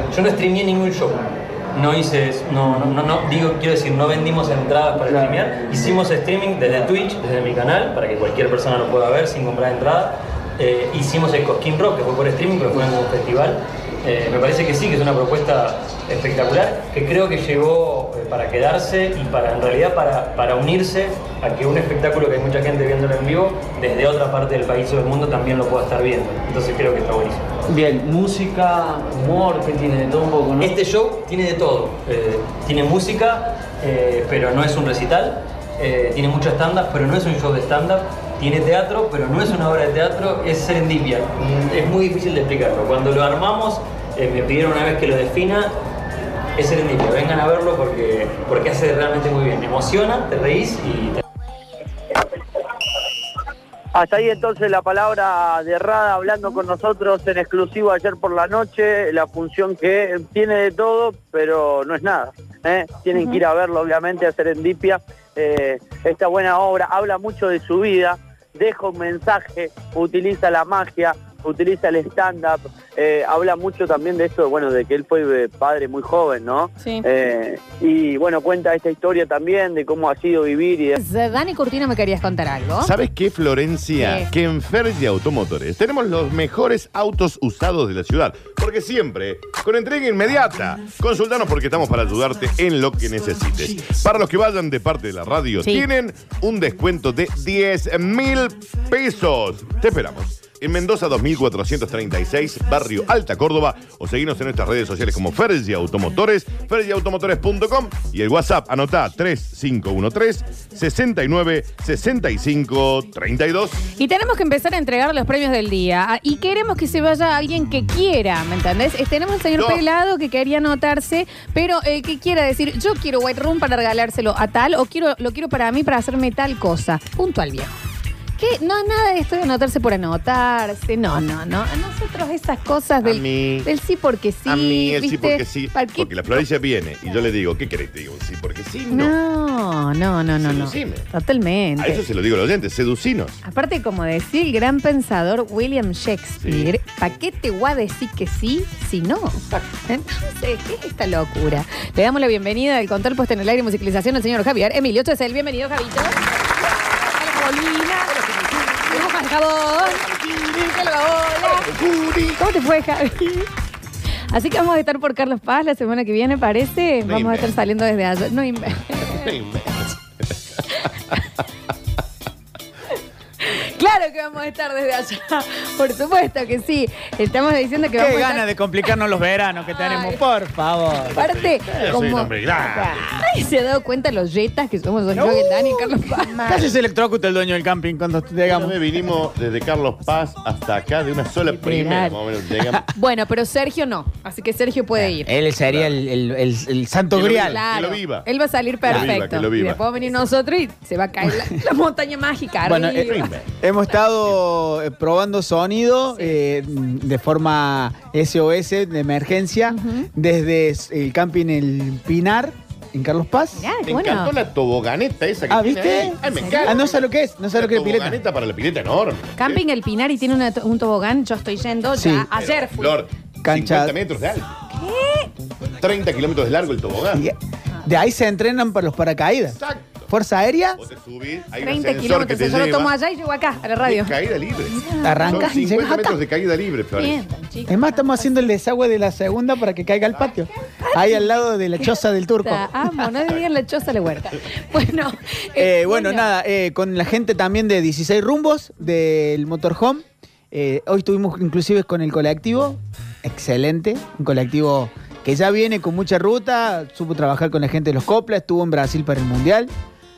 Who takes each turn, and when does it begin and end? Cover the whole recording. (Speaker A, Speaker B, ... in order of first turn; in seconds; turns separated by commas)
Speaker A: 0.1-27.5, Speaker B: 5.1-5.9, Speaker B: 27.7-30.8, Speaker A: 30.6-45.7, Speaker A: 46.5-51.2, Speaker C: 53.9-80.9, Speaker D: 80.9-82.9, Speaker E: 82.8-113.8, Speaker D: 84.0-84.3, Speaker D: 114.0-127.7, Speaker E: 119.5-119.8, Speaker D: 128.4-136.4, Speaker E: 133.0-133.7, Speaker E: 134.4-139.2, Speaker D: 138.9-142.0, Speaker E: 140.4-141.1, Speaker E: 141.8-143.4, Speaker D: 143.4-156.2, Speaker E: 146.4-146.7, Speaker E: 149.4-149.7, Speaker D: 156.9-158.2, Speaker D: 158.8-161.7, Speaker E: 161.4-162.4, Speaker D: 162.3-163.5, Speaker D: 164.3-169.3, Speaker E: 167.1-167.5, Speaker E: 169.1-169.9, Speaker D: 173.4-178.4, Speaker F: 178.0-181.2, Speaker D: 179.7-180.2, Speaker D: 181.1-186.7, Speaker E: 181.1-183.1, Speaker F: 185.1-188.8, Speaker E: 188.5-192.8, Speaker D: 191.5-192.2, Speaker D: 192.9-195.3, Speaker F: 195.2-197.6, Speaker E: 195.7-196.0, Speaker E: 197.1-198.3, Speaker D: 197.3-203.3, Speaker E: 198.8-199.8, Speaker F: 202.6-213.7, Speaker E: 202.9-203.6, Speaker D: 209.7-210.1, Speaker D: 213.5-214.3, Speaker E: 213.8-219.6, Speaker F: 215.5-218.2, Speaker D: 216.2-216.8, Speaker D: 219.4-223.0, Speaker F: 221.9-222.3, Speaker E: 222.3-224.5, Speaker F: 223.4-223.9, Speaker D: 224.7-225.3, Speaker E: 225.8-227.2, Speaker F: 227.8-229.6, Speaker E: 229.5-230.1, Speaker F: 230.1-230.8, Speaker E: 230.8-232.9, Speaker D: 231.6-234.2, Speaker E: 233.8-237.2, Speaker D: 234.7-236.2, Speaker F: 235.0-235.8, Speaker D: 236.9-238.5, Speaker F: 237.7-243.0, Speaker D: 240.1-246.3, Speaker F: 245.6-259.7